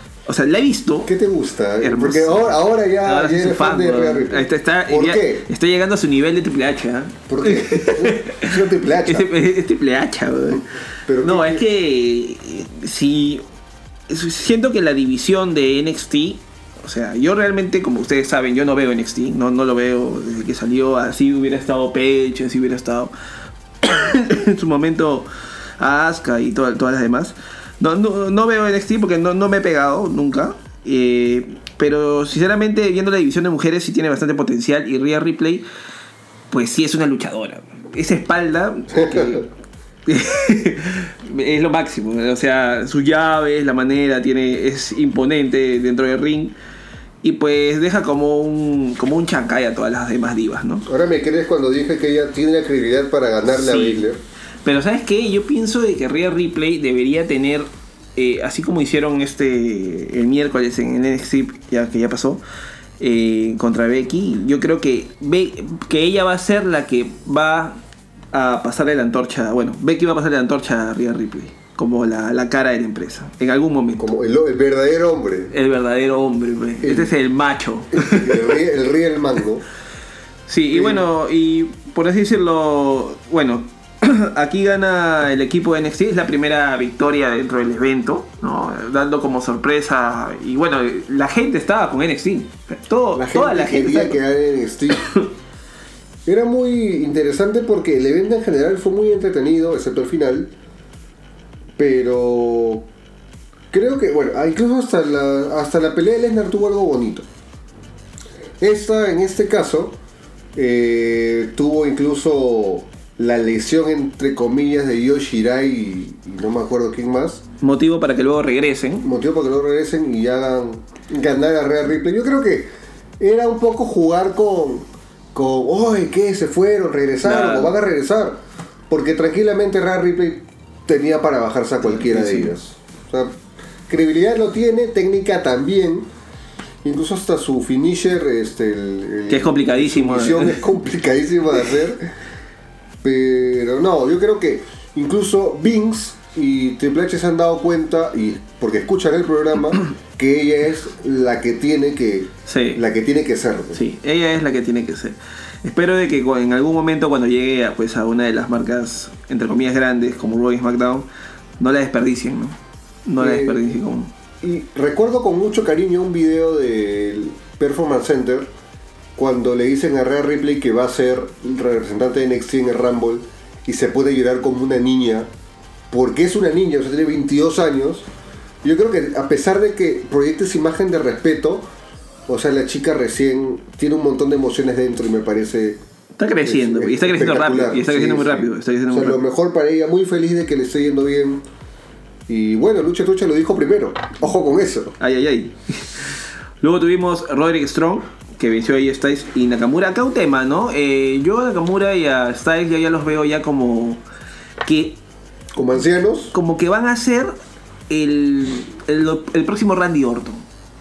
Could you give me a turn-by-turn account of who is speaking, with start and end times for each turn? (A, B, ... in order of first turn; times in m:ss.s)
0:00.3-0:01.1 A
0:01.1-0:05.5 B
0:01.8-0:10.6 A
0:07.3-0:09.3 B
0:11.1-0:11.6 B
0:11.2-0:13.4 A
0:14.1-0:23.1 A
0:23.8-0:35.7 A
0:36.5-0:39.5 A
0:39.0-0:39.4 B
0:40.1-0:46.6 A
0:47.2-0:50.9 A
0:50.9-0:54.2 B
0:53.5-0:54.1 A
0:54.6-1:02.4 A
1:03.0-1:07.8 A
1:08.3-1:14.1 A
1:14.0-1:15.5 B
1:15.5-1:18.6 A
1:16.8-1:17.1 B
1:17.9-1:19.6 B
1:20.5-1:34.2 A
1:20.7-1:21.0 B
1:33.1-1:35.1 B
1:34.9-1:35.2 A
1:36.3-1:40.5 B
1:41.8-1:42.9 B
1:43.7-1:47.3 B
1:48.6-1:50.0 B
1:50.6-1:57.4 B
1:57.6-1:59.1 A
1:59.0-2:13.4 B
2:07.2-2:07.8 A
2:11.9-2:12.5 A
2:13.9-2:16.1 B
2:16.8-2:22.1 B
2:19.3-2:20.6 A
2:23.0-2:33.8 B
2:32.5-2:32.8 A
2:33.8-2:41.1 A
2:41.6-2:44.1 A
2:43.2-2:43.8 B
2:44.4-2:48.5 B
2:49.2-2:55.3 B
2:55.9-2:58.1 B
2:58.6-3:01.7 B
3:02.3-3:05.8 B
3:06.2-3:09.2 A
3:06.4-3:11.4 B
3:12.3-3:15.0 B
3:15.0-3:24.0 A
3:24.6-3:25.0 A
3:25.6-3:26.3 B
3:26.3-3:27.3 A
3:27.9-3:30.4 A